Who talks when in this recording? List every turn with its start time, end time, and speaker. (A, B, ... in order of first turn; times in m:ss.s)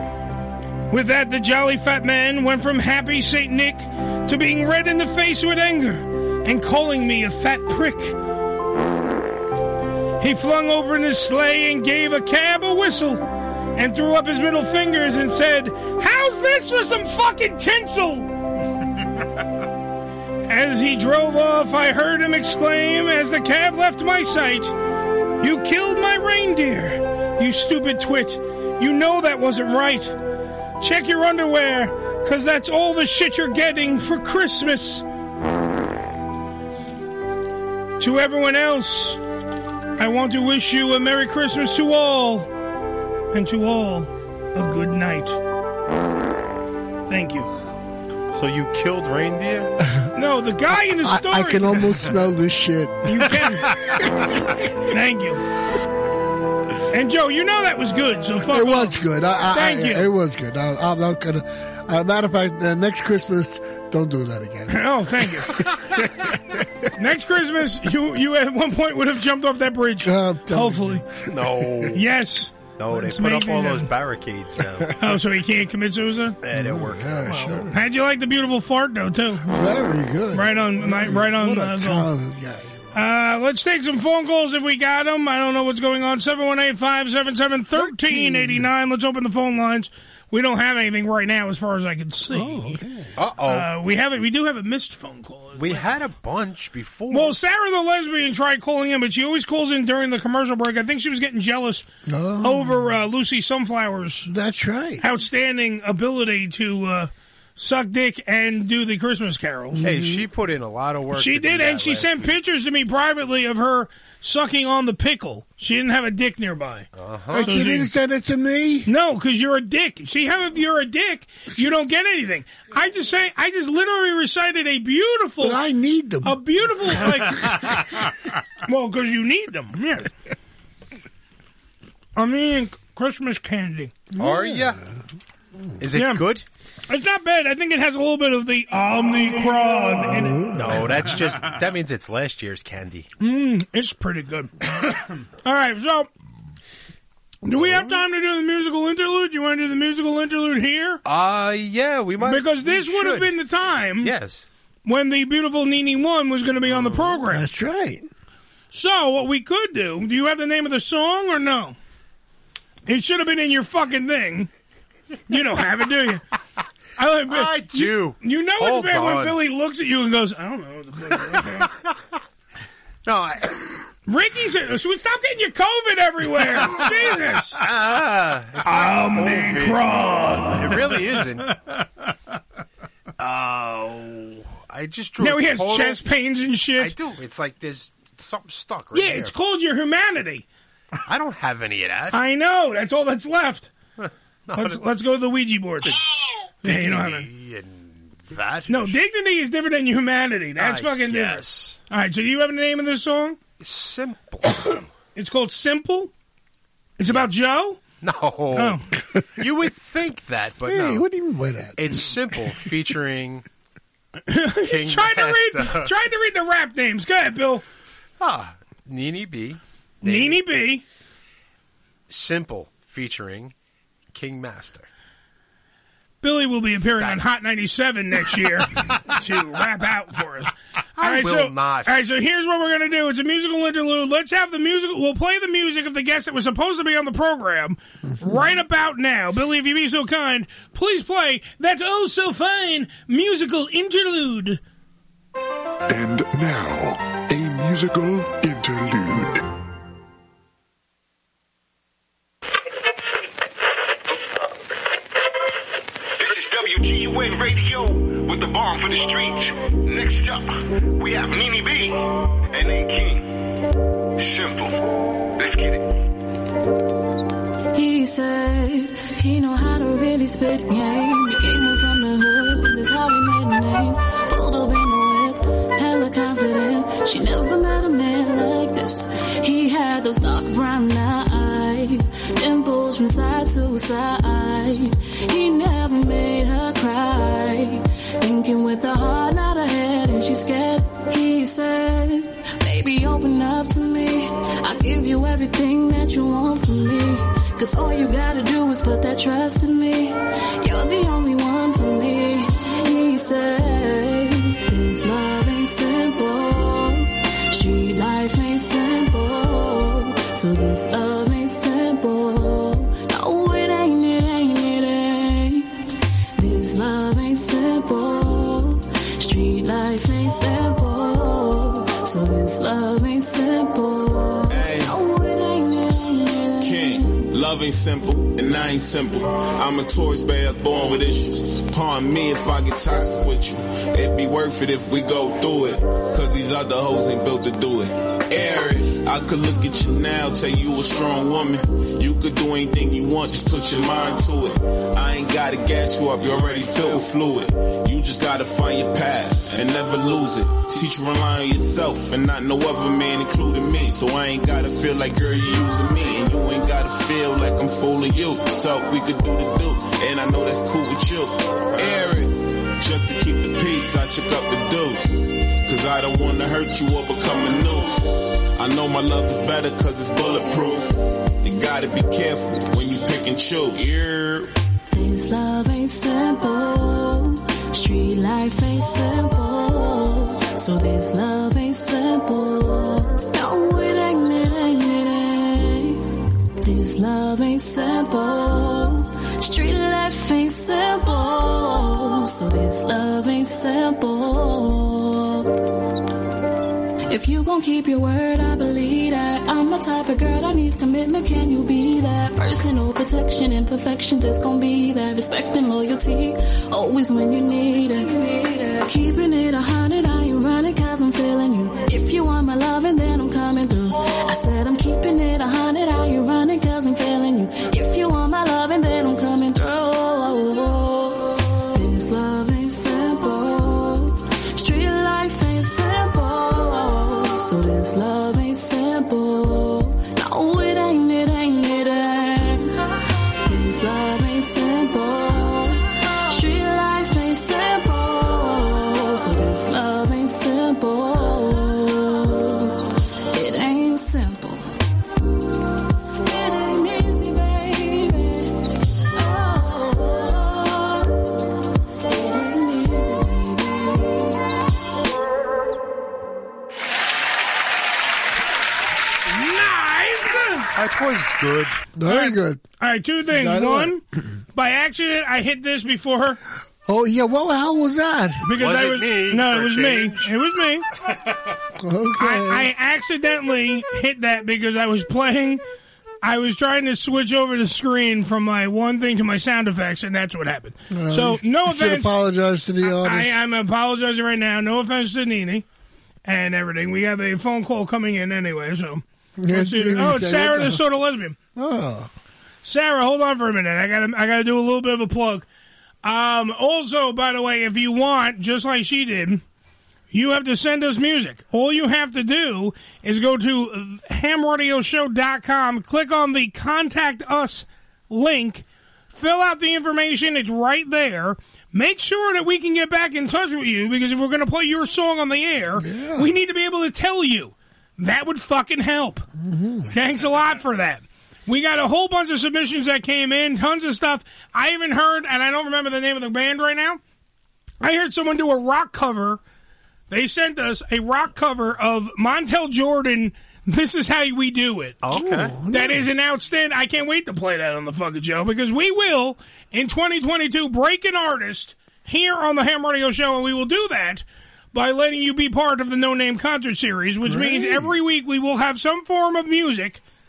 0:00.9-0:08.2 A
0:10.2-0:13.2 A
0:13.8-0:18.3 A
0:20.5-0:24.7 A
0:25.4-0:30.2 A
0:30.8-0:35.0 A
0:38.0-0:39.2 A
0:40.0-0:42.5 A
0:43.3-0:45.4 A
0:47.1-0:47.5 A
0:48.3-0:49.7 B
0:50.2-0:52.0 A
0:50.9-0:54.2 C
0:53.0-0:53.8 A
0:54.9-0:55.4 A
0:56.9-0:59.0 A
0:58.4-1:04.9 C
0:59.5-1:00.1 A
1:04.7-1:05.6 A
1:07.0-1:11.0 A
1:10.0-1:11.8 C
1:11.3-1:12.0 B
1:11.9-1:13.9 A
1:12.8-1:15.0 B
1:15.0-1:16.4 A
1:16.4-1:17.6 B
1:16.5-1:17.8 C
1:17.3-1:19.5 A
1:19.4-1:22.8 C
1:20.3-1:22.1 A
1:22.9-1:32.8 A
1:27.7-1:28.7 C
1:32.3-1:33.1 C
1:33.2-1:33.7 B
1:33.4-1:35.9 A
1:35.6-1:37.4 B
1:37.1-1:41.8 A
1:42.0-1:42.9 C
1:42.4-1:44.3 A
1:44.2-1:45.0 C
1:45.0-1:49.8 A
1:49.7-1:50.2 C
1:49.8-1:52.4 B
1:51.1-1:56.9 A
1:57.0-1:57.6 B
1:57.3-1:58.9 C
1:57.4-1:57.9 A
1:58.8-2:05.6 A
2:05.4-2:06.4 C
2:06.2-2:07.6 A
2:08.6-2:10.1 A
2:12.2-2:13.9 A
2:14.1-2:15.0 C
2:14.2-2:14.8 B
2:15.8-2:16.4 B
2:15.9-2:16.3 A
2:16.9-2:20.4 A
2:20.1-2:20.9 C
2:20.5-2:23.1 B
2:23.2-2:24.5 A
2:25.4-2:26.1 A
2:27.4-2:31.0 A
2:27.6-2:28.0 B
2:31.0-2:33.3 B
2:32.2-2:34.1 A
2:34.0-2:34.4 B
2:34.8-2:37.4 A
2:36.7-2:37.2 B
2:37.3-2:38.1 C
2:38.7-2:41.8 A
2:42.9-2:44.5 A
2:45.3-2:46.2 A
2:47.0-2:51.7 A
2:47.3-2:49.4 B
2:53.0-2:53.8 B
2:54.1-2:57.6 A
2:57.6-2:59.9 B
2:58.6-3:00.7 A
3:00.5-3:01.6 B
3:03.2-3:06.0 B
3:05.2-3:06.9 A
3:06.8-3:09.3 B
3:08.9-3:10.4 A
3:11.0-3:12.2 B
3:12.1-3:13.7 A
3:14.0-3:14.8 B
3:14.6-3:15.9 A
3:16.6-3:19.0 B
3:16.6-3:17.3 A
3:18.7-3:23.4 A
3:20.6-3:21.8 B
3:23.6-3:24.8 B
3:25.1-3:26.1 A
3:27.0-3:27.8 A
3:27.0-3:28.8 B
3:28.5-3:28.8 A
3:29.4-3:31.1 B
3:30.6-3:32.0 C
3:31.8-3:33.4 B
3:34.3-3:37.6 A
3:34.6-3:35.9 B
3:38.2-3:40.4 B
3:40.0-3:40.8 A
3:42.1-3:43.5 B
3:44.1-3:44.9 B
3:46.2-4:04.6 A
3:47.0-3:47.2 B
3:51.0-3:52.0 B
4:05.9-4:09.3 D
4:16.2-4:22.0 E
4:22.5-4:23.3 E
4:24.2-4:24.8 E
4:25.4-4:25.9 E
4:27.7-5:15.7 F
5:16.4-5:27.2 F
5:24.5-5:24.9 G
5:26.6-6:14.5 G
6:14.9-6:26.0 F
6:26.6-6:35.5 F
6:37.1-7:12.8 F
7:13.4-7:22.8 F
7:23.3-7:24.6 F
7:26.2-7:31.1 F
7:32.0-7:34.4 F
7:39.3-7:40.7 A
7:40.7-7:41.8 B
7:42.0-7:42.6 C
7:42.1-7:44.0 A
7:43.3-7:44.0 C
7:44.5-7:46.4 A
7:46.8-7:48.5 C
7:48.4-7:50.8 A
7:48.6-7:50.3 B
7:51.8-7:52.7 C
7:52.2-7:55.6 A
7:56.2-8:02.2 A
8:00.9-8:03.3 C
8:02.8-8:05.6 A
8:06.2-8:11.4 A
8:09.4-8:10.8 C
8:11.6-8:12.1 C
8:12.6-8:15.4 A
8:16.0-8:19.4 A
8:20.1-8:39.2 A
8:35.8-8:36.3 C
8:39.4-8:39.9 C
8:39.9-8:47.0 A
8:47.8-8:49.4 A
8:50.1-8:55.0 A
8:55.0-8:55.5 B
8:55.1-8:56.2 C
8:55.7-9:10.0 A
9:07.2-9:07.9 C